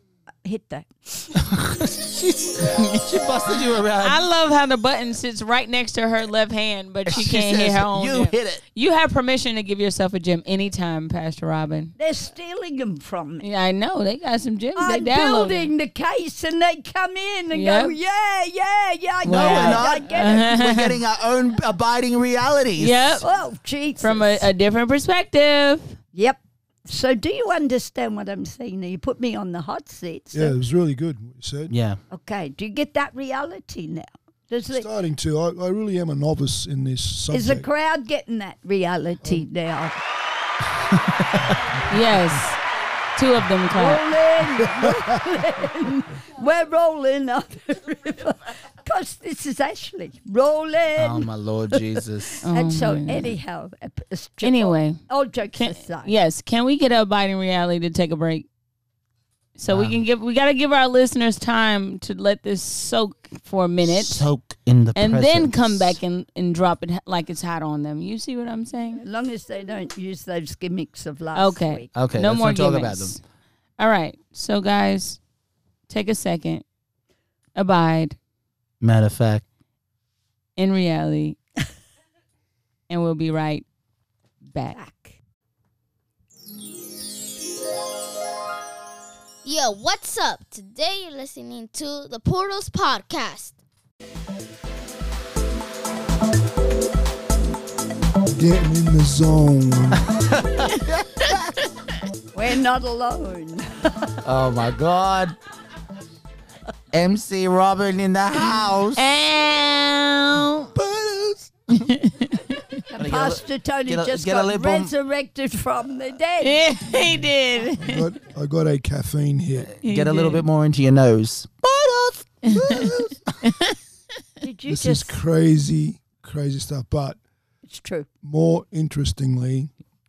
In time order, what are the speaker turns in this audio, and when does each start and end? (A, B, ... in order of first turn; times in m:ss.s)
0:00.4-0:01.3 A
0:01.4-0:04.2 B
0:04.0-0:11.9 C
0:07.1-0:08.6 B
0:12.0-0:13.5 A
0:13.4-0:15.7 C
0:14.8-0:20.5 A
0:17.5-0:18.0 C
0:19.2-0:21.0 C
0:19.3-0:23.2 B
0:22.8-0:23.2 C
0:23.2-0:24.5 A
0:24.0-0:26.0 C
0:26.1-0:30.6 A
0:30.3-0:31.7 D
0:31.7-0:32.0 B
0:32.1-0:34.9 A
0:34.7-0:37.7 D
0:37.3-0:40.0 A
0:41.2-0:41.5 B
0:41.9-0:42.6 C
0:43.2-0:44.0 C
0:43.7-0:56.2 A
0:44.6-0:45.0 D
0:51.0-0:52.4 B
0:52.4-0:53.3 C
0:54.4-0:55.0 C
0:55.5-0:58.5 C
0:59.6-1:04.3 C
0:59.7-1:00.0 B
1:03.8-1:06.0 B
1:05.0-1:09.0 C
1:09.0-1:11.9 A
1:11.4-1:13.2 C
1:11.9-1:13.2 B
1:13.8-1:15.2 C
1:15.9-1:16.6 C
1:17.6-1:18.2 C
1:18.8-1:19.4 B
1:20.6-1:21.4 C
1:22.9-1:23.6 C
1:24.5-1:24.8 C
1:24.7-1:25.2 A
1:29.4-1:33.6 E
1:38.3-1:40.1 D
1:40.0-1:41.6 B
1:42.3-1:44.2 A
1:44.2-1:45.4 B
1:46.9-1:49.0 B
1:49.0-1:50.7 C
1:50.7-1:51.9 B
1:51.7-1:52.7 C
1:52.9-1:56.6 A
1:53.0-1:54.9 B
1:56.4-1:58.1 C
1:57.8-1:59.7 D
1:59.6-2:03.2 B
1:59.8-2:00.5 C
2:02.5-2:03.8 C
2:04.4-2:05.2 A
2:04.7-2:07.2 D
2:07.6-2:08.1 A
2:08.2-2:09.7 D